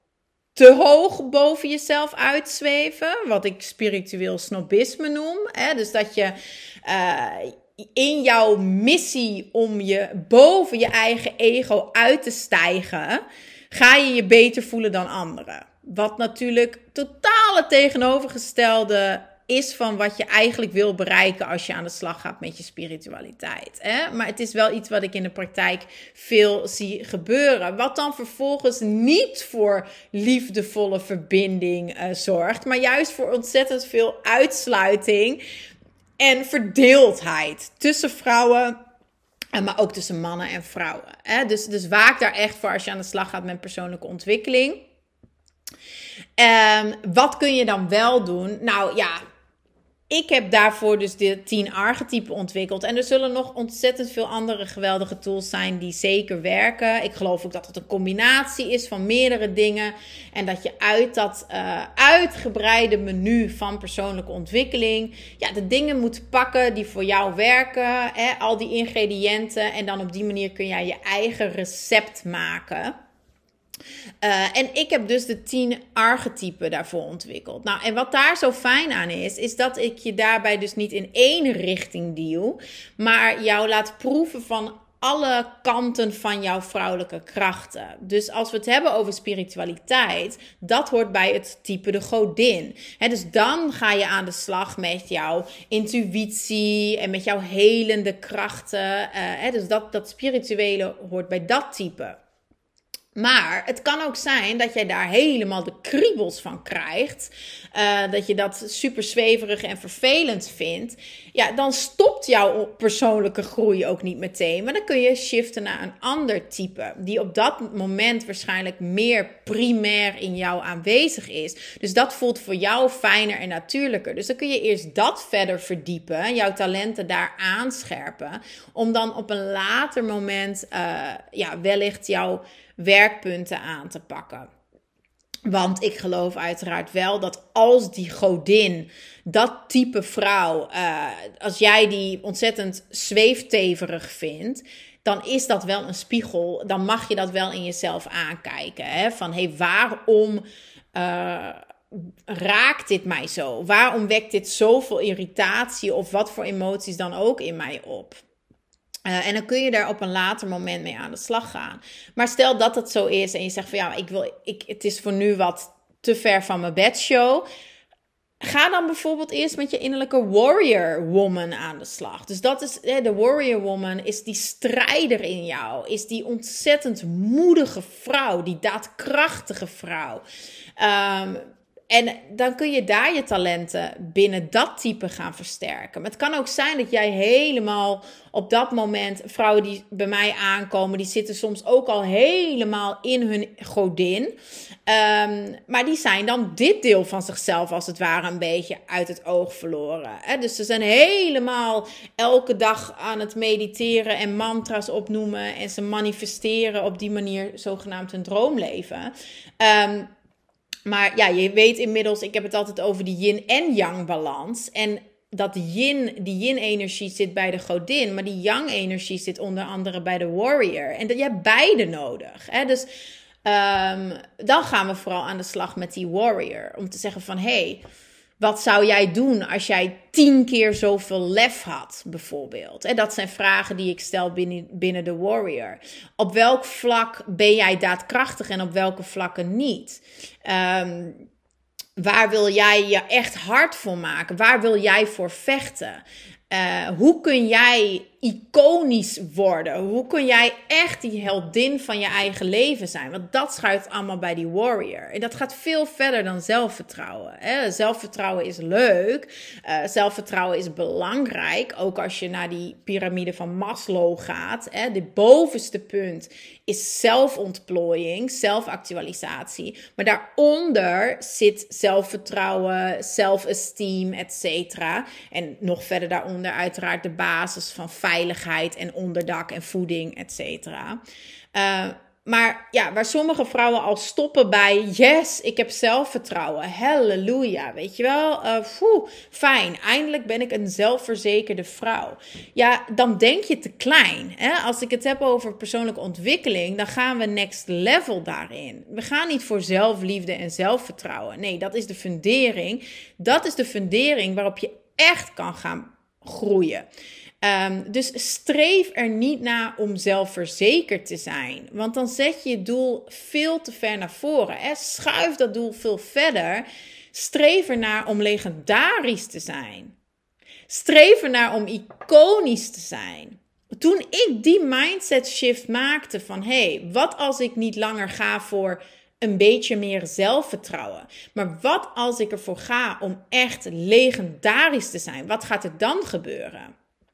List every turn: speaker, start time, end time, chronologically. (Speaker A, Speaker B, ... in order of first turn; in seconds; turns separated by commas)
Speaker A: 0.6-35.4, Speaker A: 36.2-38.8, Speaker A: 39.5-44.8, Speaker A: 46.4-49.2, Speaker A: 50.1-73.0, Speaker A: 74.2-102.2, Speaker A: 103.2-134.5, Speaker A: 135.5-150.4, Speaker A: 150.9-158.2, Speaker A: 159.1-167.5, Speaker A: 168.4-180.2, Speaker A: 180.8-194.3, Speaker A: 194.9-210.1, Speaker A: 210.9-222.9, Speaker A: 223.4-227.8, Speaker A: 228.4-241.2, Speaker A: 242.0-281.0, Speaker A: 281.5-306.9, Speaker A: 307.4-319.9, Speaker A: 320.7-336.7